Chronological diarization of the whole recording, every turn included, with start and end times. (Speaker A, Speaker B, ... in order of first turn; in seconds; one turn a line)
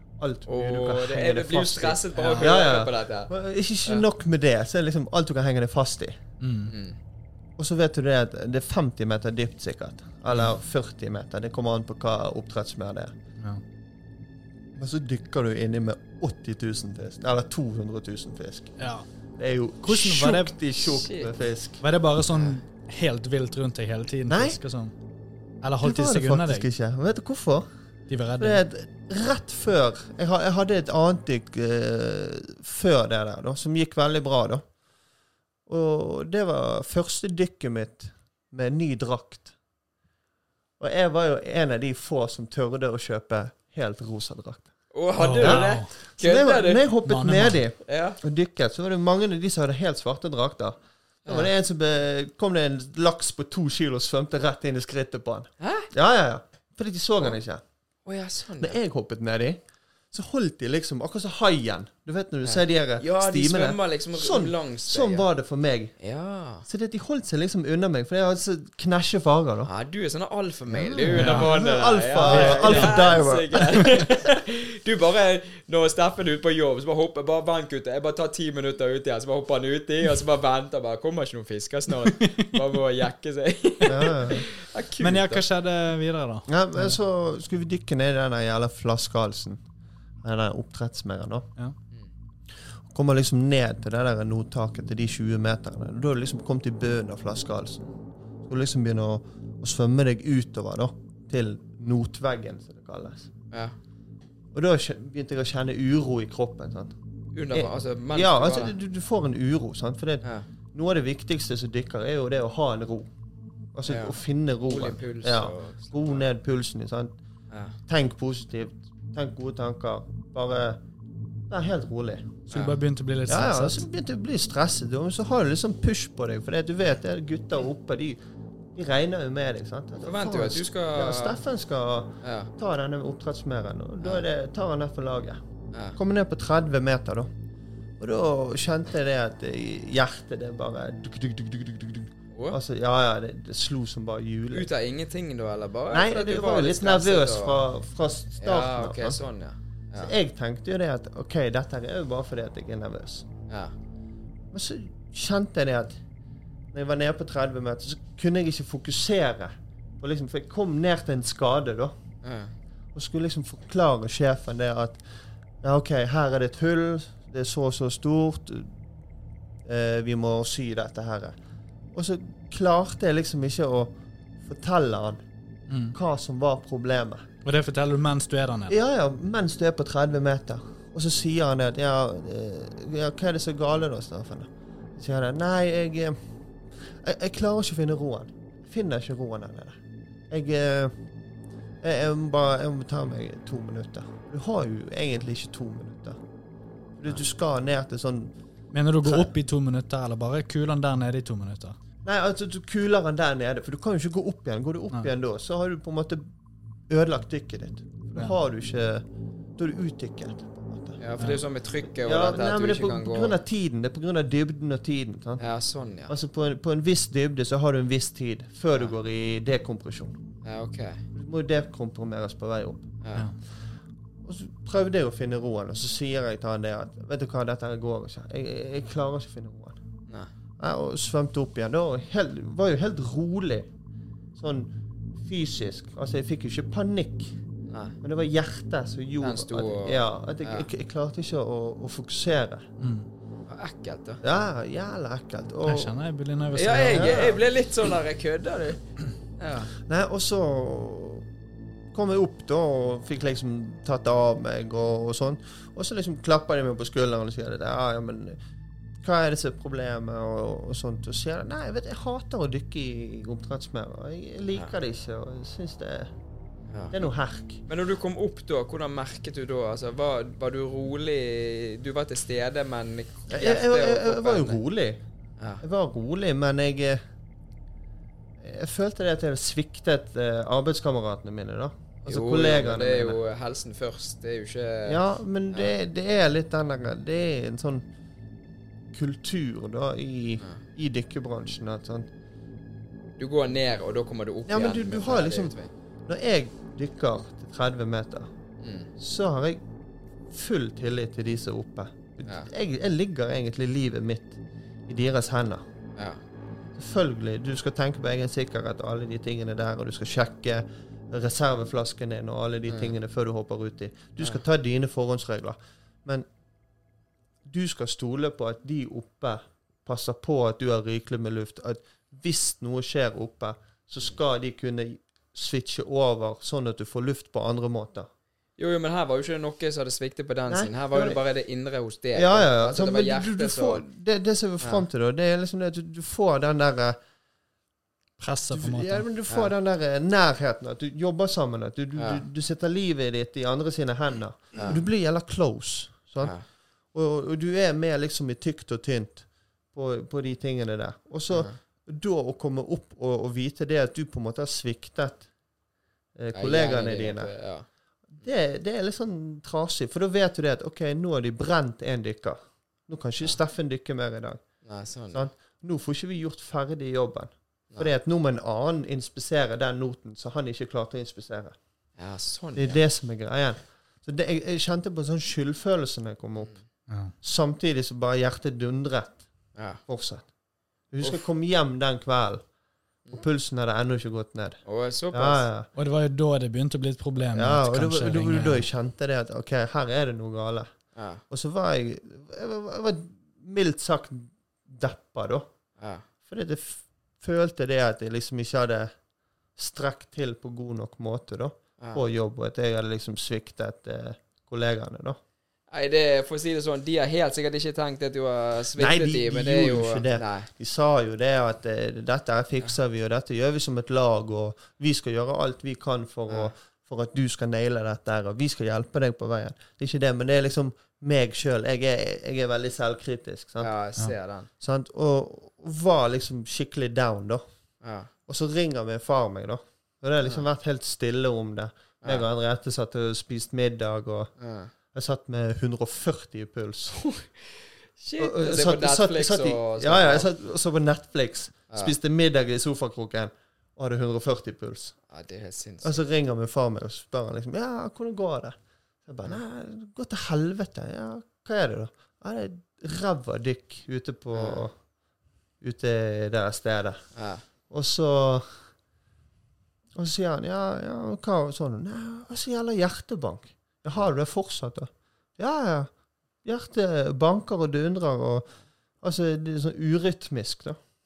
Speaker A: 0.2-6.2
Speaker B: 0.5-3.3
Speaker C: 2.1-2.5
Speaker C: 6.4-6.7
Speaker B: 6.7-7.0
Speaker A: 7.6-13.2
Speaker A: 14.8-18.8
Speaker C: 18.8-19.1
Speaker A: 19.4-21.8
Speaker C: 19.8-20.6
Speaker B: 20.8-21.3
Speaker C: 21.8-24.9
Speaker B: 22.3-22.6
Speaker A: 24.3-24.6
Speaker C: 25.6-26.7
Speaker A: 25.8-27.7
Speaker C: 28.1-28.6
Speaker A: 28.4-34.7
Speaker A: 35.7-39.5
Speaker A: 40.8-57.6
Speaker B: 44.9-46.9
Speaker C: 45.2-45.9
Speaker C: 47.0-47.6
Speaker B: 47.9-48.2
Speaker B: 51.2-51.5
Speaker B: 55.6-55.9
Speaker B: 58.1-58.8
Speaker A: 58.6-66.0
Speaker B: 62.4-65.2
Speaker B: 66.0-66.7
Speaker A: 66.6-69.7
Speaker B: 69.7-85.4
Speaker A: 70.8-73.8
Speaker C: 71.1-71.5
Speaker C: 72.2-73.2
Speaker A: 83.9-84.5
Speaker C: 85.0-87.0
Speaker A: 86.5-89.6
Speaker A: 90.2-91.5
Speaker A: 92.8-97.9
Speaker A: 98.5-103.3
Speaker A: 104.5-107.0
Speaker B: 107.3-108.8
Speaker A: 107.5-113.1
Speaker A: 113.7-117.2
Speaker B: 113.9-116.3
Speaker B: 117.5-117.8
Speaker A: 117.9-120.8
Speaker A: 121.5-122.5
Speaker B: 122.5-122.8
Speaker C: 122.5-123.8
Speaker A: 123.3-128.2
Speaker A: 128.7-135.4
Speaker B: 130.0-131.4
Speaker B: 132.2-132.5
Speaker B: 135.7-136.0
Speaker A: 136.0-137.3
Speaker A: 138.0-144.7
Speaker B: 142.3-142.6
Speaker B: 144.5-147.6
Speaker A: 145.9-149.2
Speaker B: 148.4-150.1
Speaker A: 150.0-153.3
Speaker B: 153.5-153.7
Speaker A: 154.5-156.0
Speaker A: 156.7-161.9
Speaker B: 162.2-162.5
Speaker A: 162.9-165.0
Speaker A: 165.6-168.7
Speaker A: 169.6-171.4
Speaker A: 171.9-175.2
Speaker C: 175.7-176.0
Speaker A: 175.9-177.3
Speaker C: 177.4-178.8
Speaker A: 178.7-186.2
Speaker A: 186.7-189.8
Speaker A: 190.3-190.9
Speaker A: 191.8-196.2
Speaker A: 197.0-198.3
Speaker C: 198.7-201.8
Speaker A: 199.0-199.3
Speaker A: 202.0-206.3
Speaker A: 206.9-209.1
Speaker A: 209.6-211.0
Speaker B: 211.0-213.3
Speaker A: 211.8-215.4
Speaker B: 215.4-216.2
Speaker A: 216.1-220.2
Speaker B: 220.4-221.0
Speaker A: 221.2-222.9
Speaker B: 223.0-223.3
Speaker A: 224.2-229.8
Speaker A: 230.6-233.7
Speaker A: 234.4-237.3
Speaker B: 237.7-238.0
Speaker A: 238.0-242.7
Speaker B: 239.2-240.7
Speaker C: 242.8-243.1
Speaker B: 243.5-244.2
Speaker A: 244.2-246.0
Speaker C: 245.7-247.2
Speaker B: 246.5-248.9
Speaker A: 246.9-247.4
Speaker B: 249.4-249.7
Speaker A: 249.8-251.3
Speaker A: 251.9-258.4
Speaker A: 259.0-266.1
Speaker A: 266.9-267.6
Speaker B: 267.7-274.6
Speaker A: 273.3-275.0
Speaker A: 275.6-277.0
Speaker A: 278.4-283.2
Speaker B: 282.1-285.7
Speaker A: 284.9-287.9
Speaker A: 288.9-292.1
Speaker B: 293.2-295.7
Speaker A: 294.5-298.3
Speaker B: 298.6-298.9
Speaker A: 299.0-299.6
Speaker A: 300.3-305.6
Speaker B: 302.2-302.5
Speaker B: 306.0-306.2
Speaker A: 306.8-316.3
Speaker B: 312.7-313.0
Speaker A: 317.4-328.1
Speaker B: 328.6-333.8
Speaker A: 330.5-331.2
Speaker A: 332.1-337.0
Speaker B: 334.6-334.9
Speaker C: 338.2-339.1
Speaker A: 338.5-355.3
Speaker B: 342.0-342.2
Speaker B: 344.5-344.8
Speaker B: 351.3-351.6
Speaker A: 356.1-357.4
Speaker B: 356.3-357.7
Speaker A: 358.1-371.6
Speaker B: 364.6-365.3
Speaker B: 372.0-372.8
Speaker A: 372.6-380.3
Speaker C: 376.9-377.1
Speaker B: 379.6-379.8
Speaker A: 380.9-382.5
Speaker A: 383.1-385.7
Speaker B: 384.7-385.5
Speaker C: 385.8-388.7
Speaker A: 387.3-395.5
Speaker B: 390.9-391.2
Speaker B: 395.8-396.1
Speaker A: 396.2-399.0
Speaker A: 399.6-405.2
Speaker B: 401.8-402.1
Speaker B: 405.7-410.5
Speaker A: 408.8-423.7
Speaker B: 416.3-416.5
Speaker B: 423.6-424.5
Speaker A: 424.6-427.4
Speaker B: 427.8-428.1
Speaker A: 428.3-434.3
Speaker B: 434.4-434.7
Speaker A: 434.9-437.0
Speaker B: 436.9-437.3
Speaker B: 438.0-440.3
Speaker A: 438.2-445.0
Speaker B: 445.1-446.0
Speaker A: 445.8-454.9
Speaker B: 454.3-454.7
Speaker A: 455.6-458.7
Speaker B: 457.1-457.4
Speaker A: 459.9-470.8